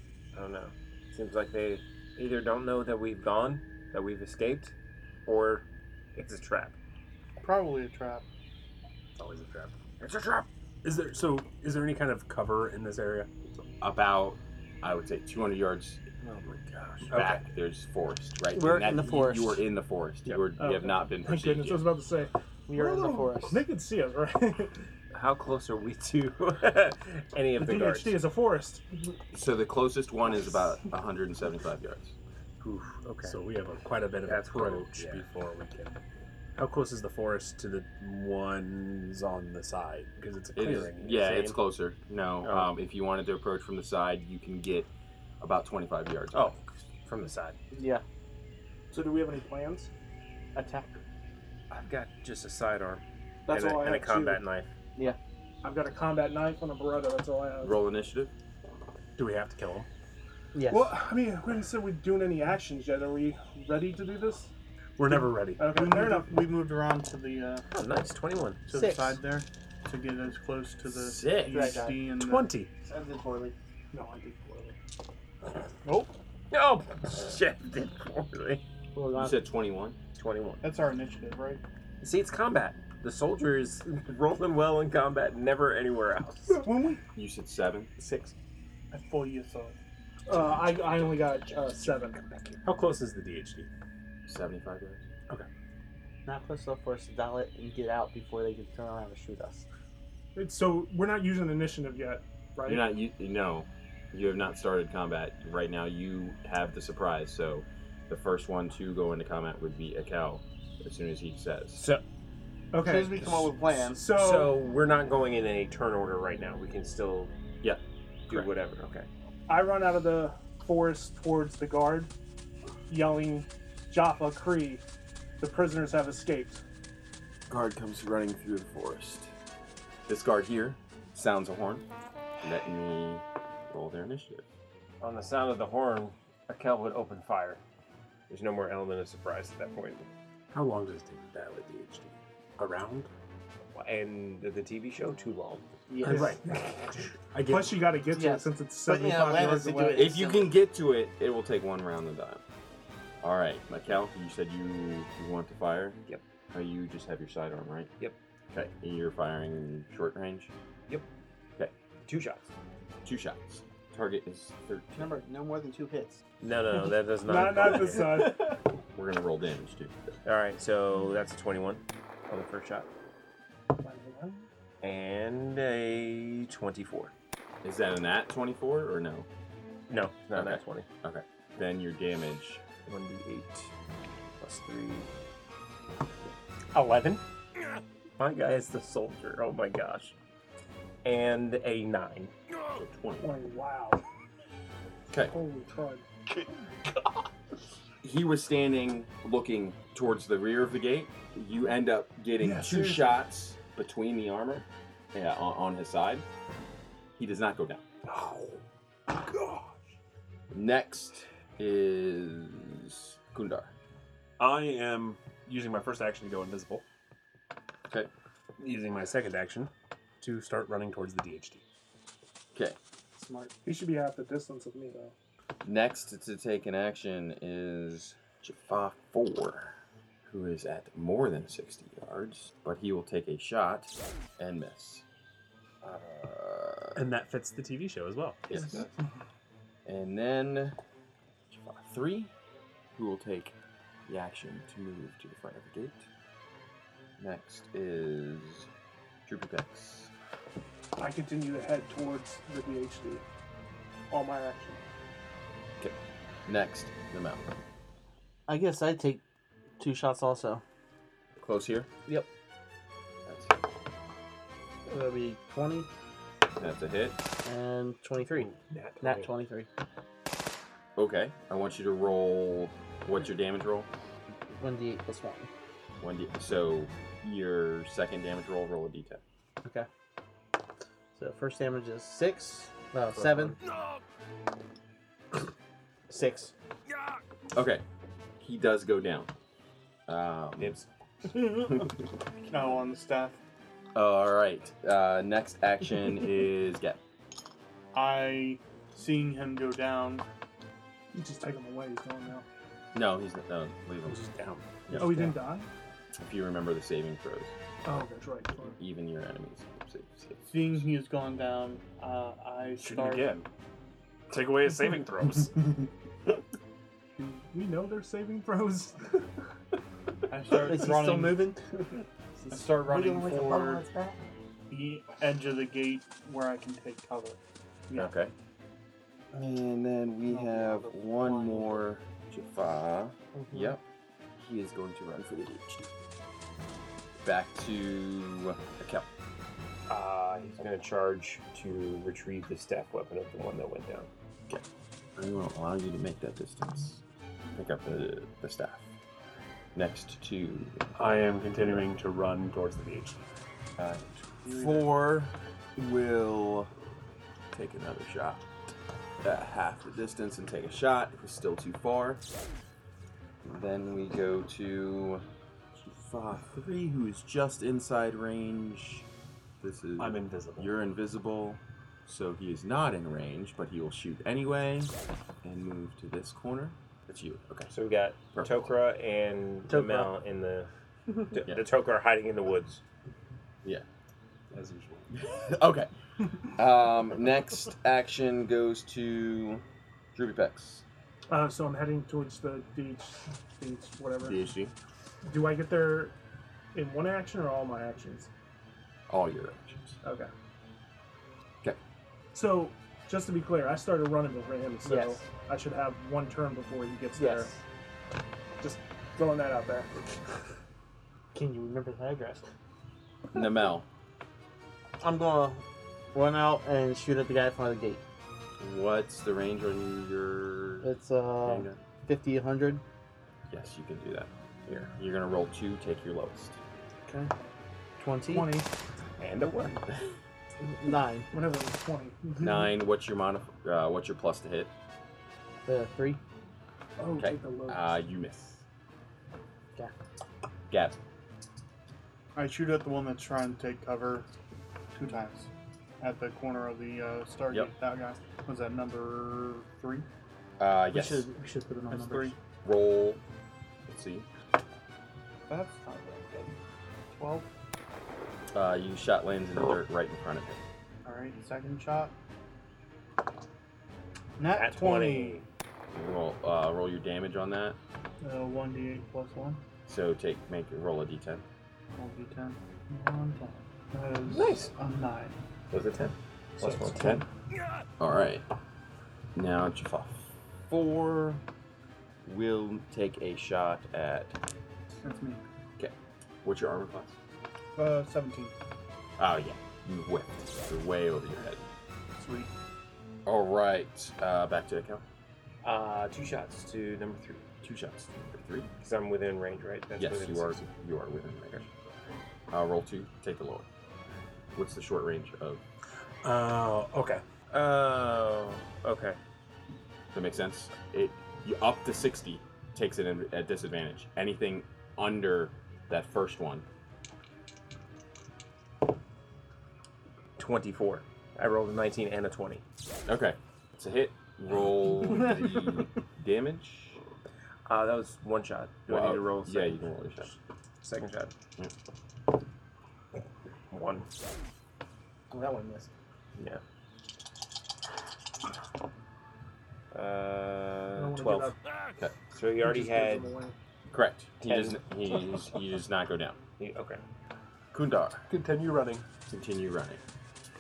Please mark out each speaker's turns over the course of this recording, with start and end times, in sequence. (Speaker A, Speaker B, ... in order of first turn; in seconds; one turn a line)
Speaker A: 0.3-4.7
Speaker A: 5.3-6.8
Speaker B: 7.4-8.2
Speaker C: 9.2-9.7
Speaker A: 10.0-10.5
Speaker C: 10.8-13.3
Speaker D: 13.8-16.0
Speaker A: 16.2-17.2
Speaker D: 17.1-21.9
Speaker C: 17.1-17.4
Speaker E: 18.5-19.6
Speaker F: 20.6-24.8
Speaker E: 22.7-23.7
Speaker A: 25.1-28.2
Speaker F: 27.6-28.8
Speaker D: 29.3-32.1
Speaker A: 32.6-33.4
Speaker C: 33.2-36.0
Speaker A: 34.3-35.3
Speaker C: 36.6-41.5
Speaker D: 40.5-44.9
Speaker A: 42.4-42.7
Speaker D: 45.4-46.6
Speaker A: 46.3-47.6
Speaker E: 47.7-48.0
Speaker F: 48.9-49.9
Speaker E: 50.5-51.0
Speaker A: 51.7-54.7
Speaker F: 53.5-54.4
Speaker F: 55.6-57.8
Speaker D: 57.6-58.3
Speaker C: 59.2-59.9
Speaker E: 60.5-61.0
Speaker F: 60.7-64.5
Speaker C: 65.0-65.6
Speaker F: 65.1-66.4
Speaker B: 65.6-67.7
Speaker A: 67.7-68.6
Speaker B: 68.7-72.6
Speaker E: 68.7-69.2
Speaker D: 70.9-71.8
Speaker E: 71.4-72.0
Speaker C: 72.2-72.7
Speaker E: 72.8-73.5
Speaker F: 73.9-74.8
Speaker B: 75.8-76.1
Speaker A: 76.5-78.6
Speaker E: 79.0-79.4
Speaker D: 79.2-80.0
Speaker A: 80.2-80.6
Speaker B: 80.6-81.6
Speaker A: 82.0-86.7
Speaker F: 86.6-87.0
Speaker D: 87.1-87.9
Speaker A: 88.0-88.3
Speaker B: 88.9-89.8
Speaker F: 90.3-92.2
Speaker C: 90.4-91.1
Speaker C: 91.8-93.7
Speaker D: 94.3-95.0
Speaker E: 96.3-99.7
Speaker F: 100.3-102.9
Speaker D: 102.7-111.8
Speaker A: 111.8-112.0
Speaker F: 112.7-114.5
Speaker E: 112.8-114.0
Speaker A: 113.9-117.3
Speaker D: 117.6-118.5
Speaker A: 118.3-119.1
Speaker F: 119.5-122.1
Speaker F: 122.9-124.8
Speaker F: 125.4-126.6
Speaker D: 127.5-129.3
Speaker D: 130.1-131.8
Speaker D: 132.4-134.5
Speaker A: 135.0-137.6
Speaker A: 138.3-140.1
Speaker C: 140.5-143.1
Speaker A: 143.7-145.7
Speaker E: 145.9-146.4
Speaker C: 146.0-146.4
Speaker F: 146.1-146.6
Speaker C: 147.0-147.9
Speaker F: 147.4-150.1
Speaker E: 148.1-150.5
Speaker D: 150.0-152.4
Speaker D: 153.2-156.0
Speaker D: 156.5-157.9
Speaker D: 158.5-160.5
Speaker A: 162.1-162.5
Speaker D: 163.0-165.2
Speaker E: 165.0-166.2
Speaker A: 166.4-168.3
Speaker F: 167.2-168.6
Speaker E: 167.9-168.6
Speaker D: 168.9-170.2
Speaker A: 170.2-172.9
Speaker F: 173.8-174.5
Speaker A: 174.8-177.1
Speaker D: 177.6-179.3
Speaker A: 179.9-180.9
Speaker D: 180.3-182.6
Speaker A: 182.8-183.7
Speaker A: 184.4-185.1
Speaker A: 186.7-187.2
Speaker A: 188.2-190.2
Speaker A: 191.1-192.3
Speaker D: 192.8-193.3
Speaker F: 193.2-194.0
Speaker F: 195.2-196.1
Speaker D: 198.0-206.3
Speaker F: 202.4-203.2
Speaker D: 207.2-207.8
Speaker C: 208.1-208.6
Speaker C: 209.2-209.7
Speaker D: 210.5-213.7
Speaker C: 214.4-216.8
Speaker C: 218.6-221.6
Speaker B: 223.2-223.5
Speaker F: 223.6-225.1
Speaker D: 225.6-235.0
Speaker D: 235.8-237.0
Speaker C: 236.9-238.4
Speaker D: 238.5-238.9
Speaker D: 239.9-240.8
Speaker D: 241.5-242.3
Speaker D: 242.9-243.6
Speaker D: 244.1-246.1
Speaker D: 247.2-248.7
Speaker D: 249.3-250.1
Speaker F: 251.0-253.2
Speaker F: 254.1-254.8
Speaker D: 255.8-257.5
Speaker E: 258.5-259.2
Speaker E: 259.8-260.6
Speaker D: 261.4-261.9
Speaker D: 263.3-263.6
Speaker E: 264.9-265.9
Speaker D: 266.6-267.2
Speaker E: 267.4-269.7
Speaker C: 268.7-269.3
Speaker A: 268.7-269.3
Speaker D: 271.0-273.9
Speaker E: 274.5-275.5
Speaker D: 276.0-279.2
Speaker E: 281.2-283.6
Speaker A: 283.1-283.6
Speaker E: 286.1-286.5
Speaker D: 287.6-287.8
Speaker D: 288.4-289.3
Speaker D: 290.1-290.8
Speaker A: 290.6-290.9
Speaker B: 291.3-291.8
Speaker D: 291.5-291.9
Speaker B: 292.5-293.4
Speaker D: 293.9-297.0
Speaker B: 297.9-300.2
Speaker F: 301.1-302.5
Speaker D: 302.9-304.3
Speaker C: 304.1-304.6
Speaker D: 304.9-305.4
Speaker F: 304.9-305.7
Speaker D: 306.2-307.6
Speaker F: 307.9-308.8
Speaker D: 308.8-310.9
Speaker B: 310.5-313.4
Speaker C: 312.8-313.4
Speaker C: 314.3-315.9
Speaker F: 317.5-319.2
Speaker B: 320.3-321.5
Speaker E: 320.5-321.6
Speaker B: 322.5-323.9
Speaker E: 322.5-324.2
Speaker B: 324.7-328.1
Speaker D: 327.9-328.3
Speaker D: 329.3-333.8
Speaker E: 330.3-331.9
Speaker E: 333.4-333.8
Speaker D: 334.4-335.9
Speaker D: 337.2-339.1
Speaker A: 339.9-344.1
Speaker D: 345.2-348.9
Speaker D: 349.8-351.1
Speaker C: 351.0-353.3
Speaker D: 353.8-356.7
Speaker D: 357.5-358.4
Speaker D: 359.2-362.2
Speaker D: 363.4-365.2
Speaker D: 365.8-369.1
Speaker D: 369.6-374.9
Speaker C: 370.0-370.8
Speaker D: 375.4-377.7
Speaker A: 377.7-380.7
Speaker D: 378.3-378.7
Speaker E: 379.7-380.1
Speaker A: 381.3-382.8
Speaker C: 384.5-385.1
Speaker D: 385.1-385.9
Speaker D: 386.4-389.6
Speaker D: 390.1-390.9
Speaker F: 391.3-394.4
Speaker D: 394.2-394.7
Speaker F: 395.2-396.1
Speaker F: 396.7-398.3
Speaker D: 399.1-400.0
Speaker F: 400.0-400.3
Speaker F: 402.3-407.6
Speaker E: 404.8-405.2
Speaker E: 407.1-407.6
Speaker F: 408.6-410.1
Speaker E: 411.3-412.5
Speaker D: 413.3-413.9
Speaker E: 415.0-418.0
Speaker D: 418.6-420.9
Speaker E: 420.8-422.8
Speaker D: 421.4-421.8
Speaker D: 423.5-424.3
Speaker D: 424.8-426.6
Speaker E: 427.1-427.3
Speaker E: 428.0-428.7
Speaker F: 428.3-428.6
Speaker A: 429.2-429.8
Speaker E: 430.6-431.3
Speaker F: 431.3-432.7
Speaker D: 432.4-434.7
Speaker E: 435.7-436.2
Speaker F: 437.0-437.9
Speaker D: 437.2-438.6
Speaker D: 440.7-441.0
Speaker B: 442.4-444.3
Speaker B: 444.9-445.5
Speaker B: 446.0-450.1
Speaker D: 450.6-451.3
Speaker E: 450.9-452.3
Speaker B: 451.9-452.3
Speaker D: 452.2-453.2
Speaker D: 453.9-454.3
Speaker B: 455.5-456.6
Speaker B: 457.1-457.5
Speaker D: 458.5-460.6
Speaker B: 461.1-462.1
Speaker B: 464.4-465.4
Speaker A: 464.5-465.4
Speaker D: 465.9-467.8
Speaker B: 468.2-469.6
Speaker D: 469.9-471.4
Speaker B: 472.0-475.4
Speaker A: 474.3-474.7
Speaker A: 475.7-477.2
Speaker D: 476.8-477.2
Speaker D: 478.0-478.5
Speaker D: 479.4-481.4
Speaker D: 482.2-484.4
Speaker B: 485.0-485.4
Speaker D: 485.8-487.2
Speaker B: 487.8-488.6
Speaker D: 489.2-491.6
Speaker B: 492.2-492.5
Speaker D: 493.3-495.0
Speaker A: 495.6-497.4
Speaker D: 497.6-498.7
Speaker A: 498.8-500.6
Speaker D: 500.0-501.7
Speaker D: 502.5-503.7
Speaker D: 504.5-505.6
Speaker C: 506.2-507.2
Speaker A: 507.5-509.2
Speaker D: 510.1-516.6
Speaker A: 520.4-522.6
Speaker D: 523.1-527.0
Speaker A: 527.7-531.3
Speaker D: 528.9-530.3
Speaker A: 533.7-534.1
Speaker E: 535.3-535.9
Speaker A: 539.9-541.5
Speaker F: 541.0-541.5
Speaker A: 542.3-543.3
Speaker F: 542.6-543.5
Speaker D: 543.9-546.4
Speaker A: 544.4-544.8
Speaker A: 546.6-547.0
Speaker D: 547.7-548.3
Speaker C: 548.3-549.0
Speaker D: 549.3-550.0